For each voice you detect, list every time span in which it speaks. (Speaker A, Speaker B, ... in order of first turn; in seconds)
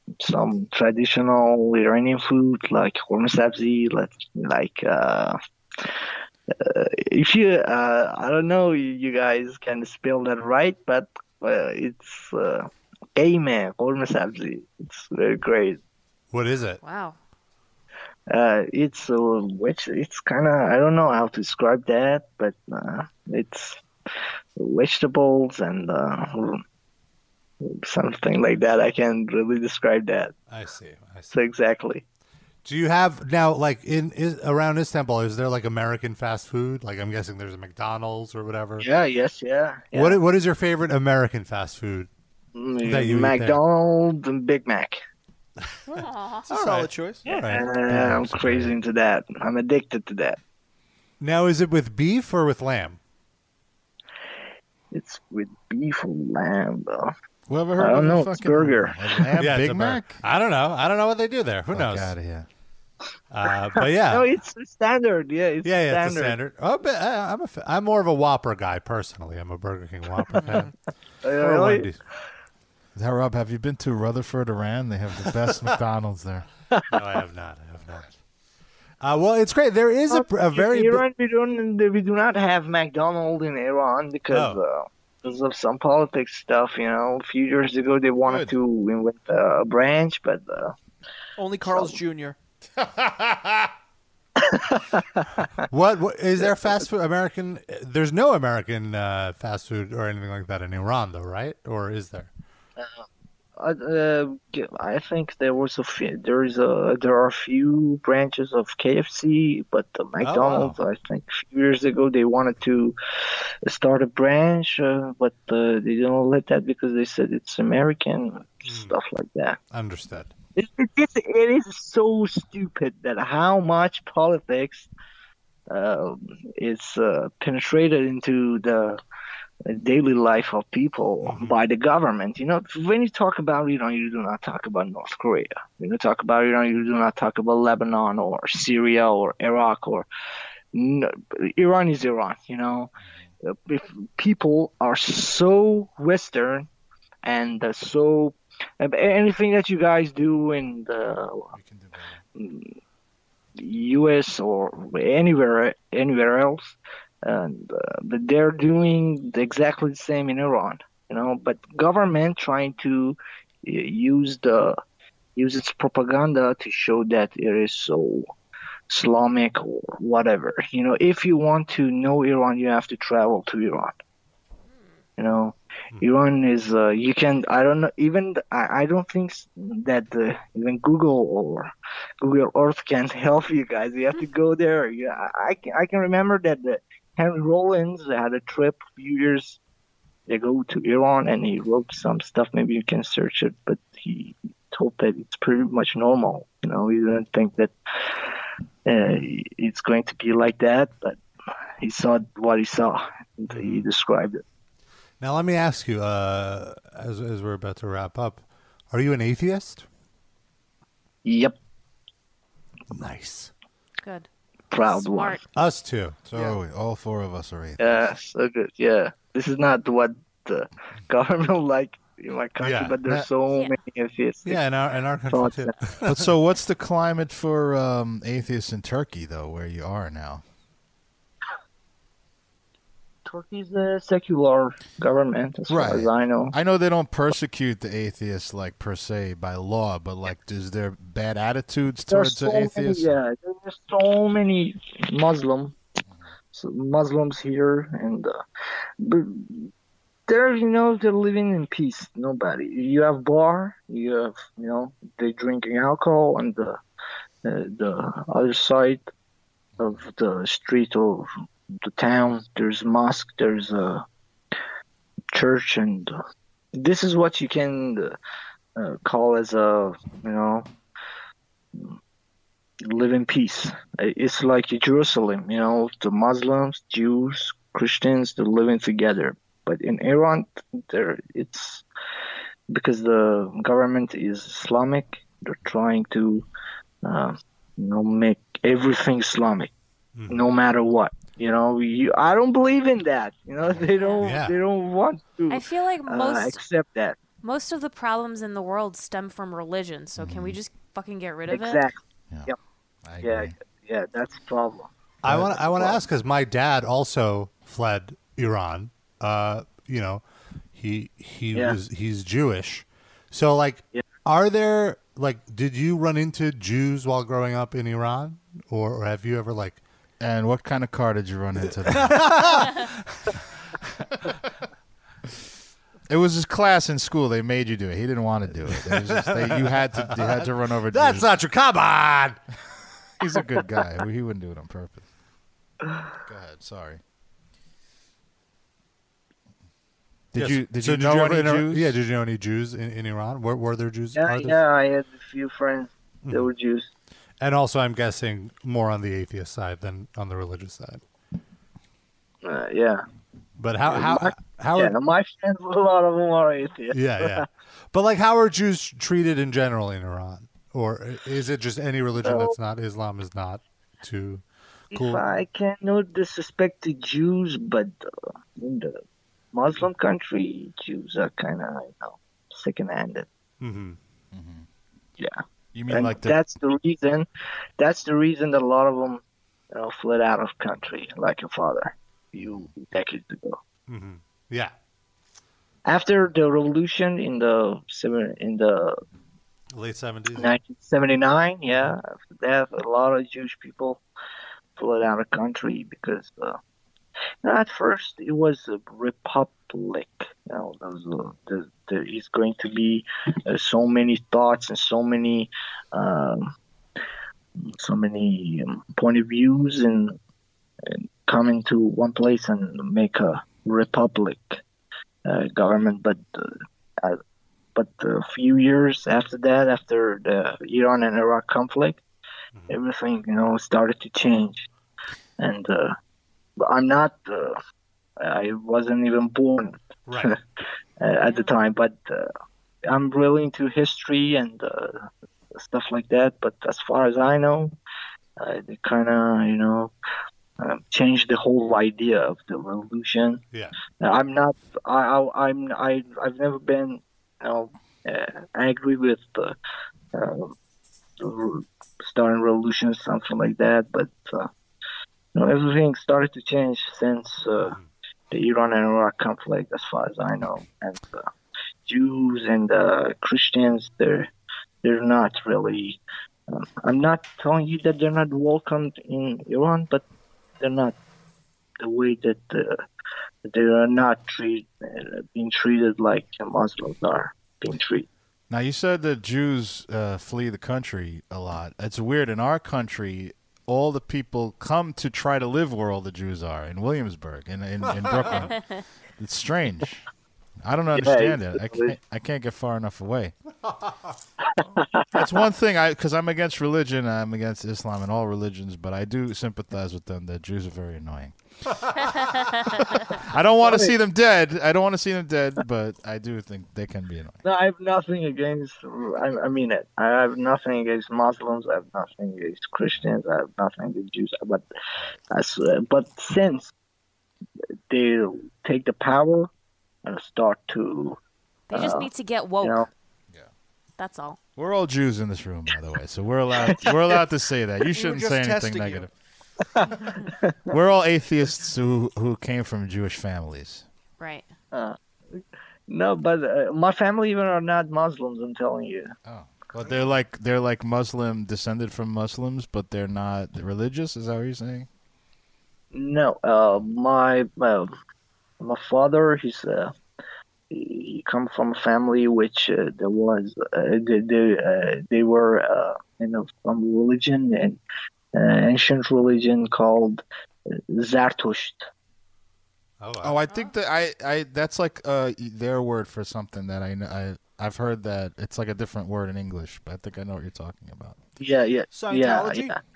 Speaker A: 0.2-15.8, 18.3-23.8, 24.6-26.6, 27.6-30.3, 31.3-32.0, 38.8-40.2, 42.5-45.0, 47.3-50.4, 54.9-57.1, 57.8-59.2, 64.0-66.4, 71.2-71.9, 80.1-90.7, 91.6-92.0, 94.4-95.5, 102.8-103.0, 103.6-113.0, 113.6-119.6, 120.5-124.9, 125.7-129.0, 129.7-140.1, 140.7-142.9, 143.4-146.7, 147.2-151.5, 152.4-152.7, 153.6-164.8, 165.3-168.3, 168.9-173.9, 175.2-189.6, 190.3-201.2, 201.8-204.4, 211.2-211.6, 214.7-215.4, 217.8-224.6, 225.3-225.7, 233.3-236.5, 242.1-245.7, 246.5-248.4, 249.0-249.7, 250.3-256.8, 257.4-259.1, 259.8-261.3, 261.8-264.0, 265.3-266.1, 266.8-268.1, 268.8-270.7, 272.8-281.8, 282.7-286.4, 287.0-289.7, 290.3-297.2, 301.5-302.5, 303.2-306.0, 344.1-346.9, 352.4-353.0, 353.8-357.4, 362.2-362.5, 364.9-368.0, 368.6-369.0, 369.5-373.3, 375.9-377.2, 377.8-383.6, 385.8-389.0, 390.4-394.0, 394.8-396.6, 397.4-406.5, 407.6-410.2, 410.9-414.6, 415.2-417.2, 417.7-422.0, 422.7-424.7, 425.4-425.9, 426.6-427.6, 428.2-430.4, 431.0-432.3, 432.9-437.7, 438.4-439.9, 440.6-443.4, 444.0-449.5, 450.1-450.5, 451.2-454.5, 455.3-457.8, 458.3-461.3, 461.9-464.3, 464.8-470.0, 470.6-470.9, 471.8-472.8, 473.4-478.1, 490.9-491.9, 494.7-495.2, 503.6-503.9, 507.4-514.6, 515.3-516.7, 517.9-519.5, 520.0-521.2, 521.7-522.1, 522.6-522.9, 526.5-527.2, 529.8-530.7, 534.7-539.1, 545.9-547.9, 548.6-549.9, 550.7-557.8, 558.3-561.9, 571.4-572.8
Speaker B: 16.3-16.8, 30.5-31.3, 32.6-38.9, 39.9-42.1, 42.8-43.6, 46.5-48.7, 51.2-53.0, 59.4-62.1, 63.3-64.3, 65.6-70.7, 71.4-72.0, 75.3-75.7, 76.9-78.1, 79.0-81.0, 84.3-84.6, 95.7-102.3, 110.2-110.8, 118.6-118.9, 119.7-120.3, 131.2-131.6, 203.5-203.9, 205.2-209.8, 212.9-213.5, 215.5-216.2, 222.6-222.9, 224.4-226.3, 290.1-290.5, 294.2-294.6, 305.2-310.2, 310.7-319.8, 321.9-323.3, 328.6-332.4, 340.4-344.6, 346.2-346.5, 347.4-351.0, 353.6-354.9, 356.9-365.2, 373.6-374.0, 383.9-384.7, 389.7-390.6, 430.1-430.3, 457.6-457.9, 487.9-488.5, 563.0-563.4
Speaker C: 16.8-17.2, 45.9-46.5, 214.0-214.3, 214.8-215.4, 223.5-223.8, 293.9-294.2, 295.5-296.6, 297.4-301.8, 431.2-431.5, 502.2-502.6, 521.7-522.8, 524.0-524.4, 534.2-534.5, 563.5-563.7
Speaker D: 46.5-47.2, 91.4-92.4, 527.9-529.0, 571.9-572.8
Speaker E: 47.9-48.3, 57.5-60.2, 61.7-62.5, 72.9-76.5, 88.2-88.5, 92.8-93.7, 143.0-143.3, 151.5-152.2, 216.3-218.1, 226.0-230.4, 235.7-243.2, 300.1-300.6, 303.0-303.5, 320.2-322.6, 326.1-331.3, 333.2-335.1, 336.2-337.0, 340.3-342.0, 374.3-374.6, 375.7-376.4, 382.4-382.7, 478.5-488.6, 489.2-490.0, 490.6-493.3, 495.1-501.3, 503.0-507.4, 524.6-529.1, 530.7-533.9, 539.2-544.9, 563.2-571.2